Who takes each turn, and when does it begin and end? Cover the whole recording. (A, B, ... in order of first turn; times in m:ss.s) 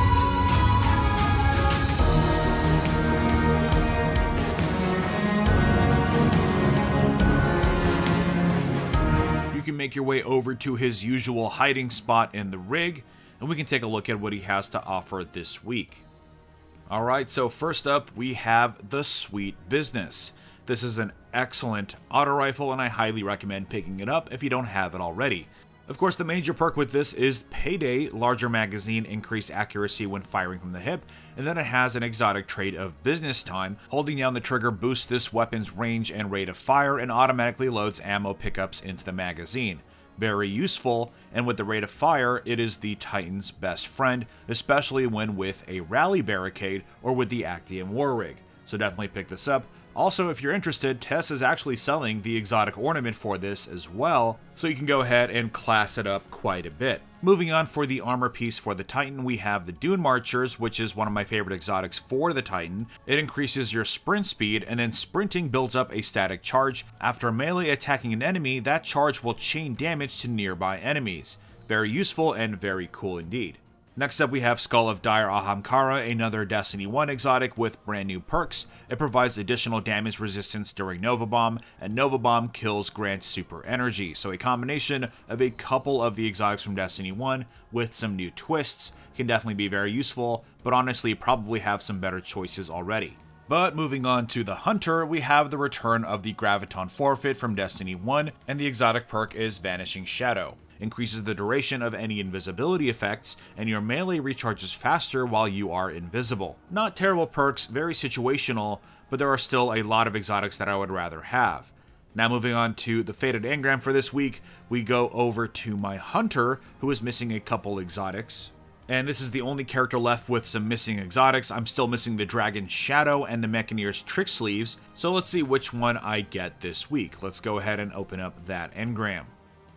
0:09.5-0:16.0 A
0:16.9-2:09.3 A